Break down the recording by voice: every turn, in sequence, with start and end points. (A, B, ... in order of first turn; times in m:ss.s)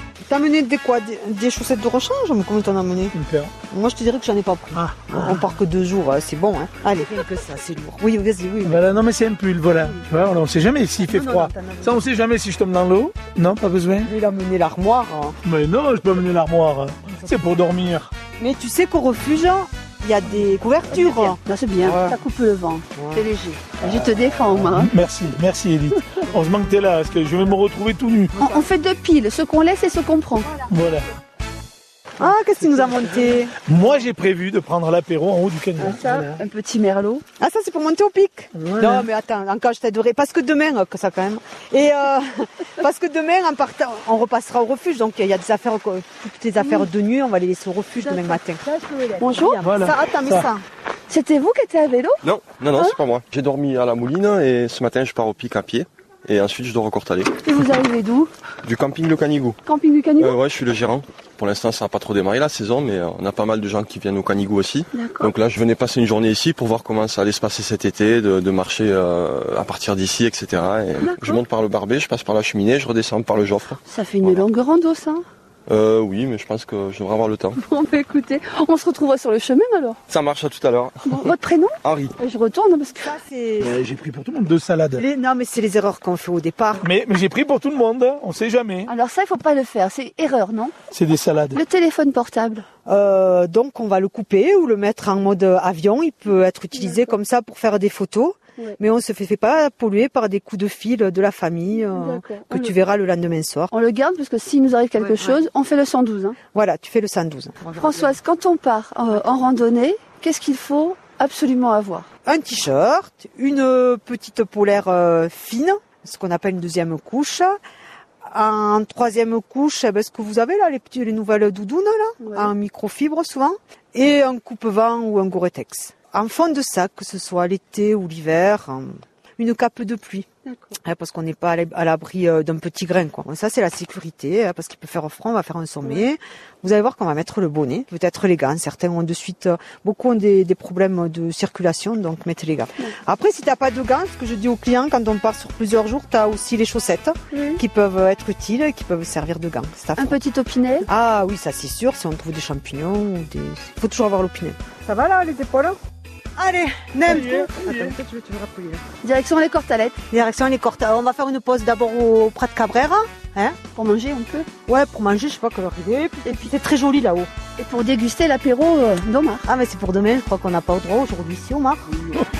0:00.3-0:03.1 A
0:03.1-0:03.5 B
0:03.7-0:08.9 A
0:04.7-0:05.4 B
0:08.6-0:14.1 B
0:11.0-0:12.0 A
0:14.0-0:15.4 A
0:15.4-0:18.1 B
0:18.4-0:22.2 A
0:20.9-0:24.9 C
0:22.9-0:23.3 A
0:24.6-0:28.3 B
0:28.4-0:30.5 C
0:28.4-0:28.6 A
0:30.7-0:31.1 B
0:32.2-0:33.5 A
0:33.6-0:36.4 B
0:35.8-0:37.2 C
0:37.4-0:50.6 A
0:38.6-0:39.0 B
0:46.6-0:46.9 C
0:48.0-0:48.4 C
0:49.2-0:49.6 C
0:49.6-0:50.5 B
0:51.1-0:52.2 C
0:52.2-0:57.4 D
0:57.4-0:58.3 C
0:58.6-0:59.6 D
0:59.6-1:00.4 C
1:00.2-1:14.4 D
1:04.9-1:05.3 C
1:11.0-1:11.4 C
1:13.8-1:15.2 C
1:15.7-1:17.6 D
1:17.5-1:20.0 C
1:20.1-1:22.1 D
1:21.0-1:23.1 C
1:23.0-1:23.8 A
1:23.6-1:25.0 B
1:24.9-1:26.9 A
1:26.8-1:28.9 B
1:28.8-1:30.7 C
1:30.9-1:31.6 B
1:31.5-1:32.6 C
1:32.8-1:43.7 A
1:36.7-1:37.1 C
1:41.7-1:42.8 C
1:43.7-1:46.4 C
1:45.0-1:45.5 A
1:46.5-1:48.2 A
1:47.8-1:52.1 C
1:52.2-1:57.6 A
1:58.3-2:10.3 A
2:02.2-2:02.5 C
2:10.4-2:10.7 C
2:10.8-2:30.2 A
2:27.3-2:27.6 C
2:30.0-2:30.9 C
2:30.9-2:35.8 A
2:36.4-2:38.8 A
2:37.1-2:37.9 C
2:39.0-2:40.0 C
2:40.1-2:43.6 A
2:43.7-2:44.5 C
2:44.7-2:47.3 A
2:46.2-2:46.5 C
2:47.6-2:49.5 C
2:49.4-2:52.0 A